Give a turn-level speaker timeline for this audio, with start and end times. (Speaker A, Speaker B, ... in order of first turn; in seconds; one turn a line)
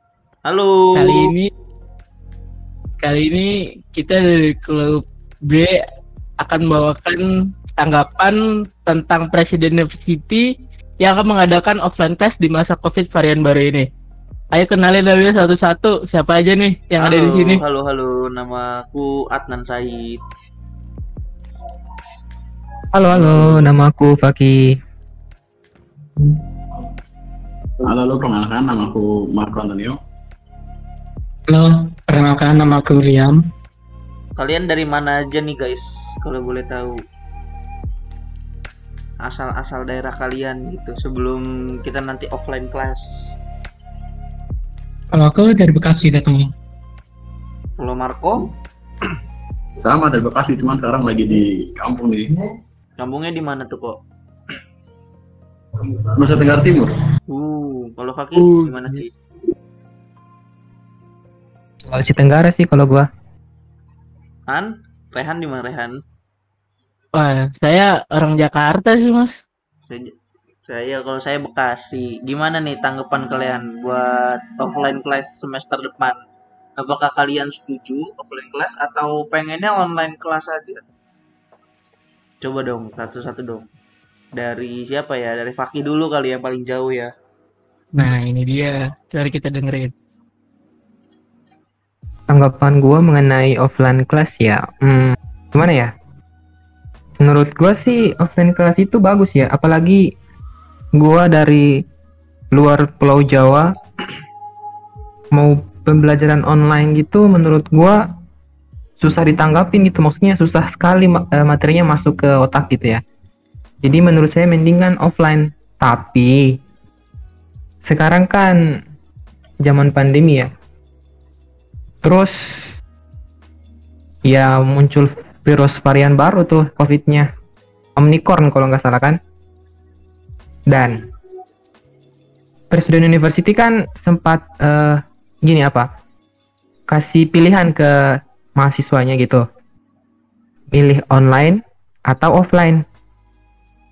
Speaker A: 0.5-1.3
Speaker B: 0.9-1.5
Speaker B: 3.0-5.8
Speaker B: 6.4-7.2
Speaker B: 7.8-10.4
Speaker B: 11.0-13.9
Speaker B: 14.5-17.6
Speaker A: 17.0-20.2
Speaker C: 22.9-24.8
Speaker D: 23.2-23.7
Speaker D: 27.8-30.0
Speaker E: 31.5-33.4
Speaker A: 34.4-37.0
Speaker A: 39.2-43.1
Speaker E: 45.1-46.5
Speaker A: 47.8-48.5
Speaker D: 49.8-52.3
Speaker A: 53.0-54.0
Speaker D: 55.8-56.9
Speaker A: 57.3-59.1
Speaker C: 61.9-63.1
Speaker A: 64.5-66.0
Speaker B: 67.2-69.3
Speaker A: 70.7-76.2
Speaker A: 76.8-80.8
Speaker A: 82.4-83.7
Speaker A: 84.3-87.1
Speaker B: 88.0-89.9
Speaker C: 92.3-95.9
Speaker C: 97.2-100.0
Speaker C: 101.0-101.7
Speaker C: 102.5-103.7
Speaker C: 105.3-108.0
Speaker C: 109.0-113.0
Speaker C: 113.8-116.5
Speaker C: 117.8-118.6
Speaker C: 119.6-120.5
Speaker C: 122.0-122.7
Speaker C: 124.3-127.3
Speaker C: 128.0-129.2
Speaker C: 130.7-131.0
Speaker C: 132.7-135.9
Speaker C: 136.9-137.9
Speaker C: 138.6-139.4
Speaker C: 140.7-142.8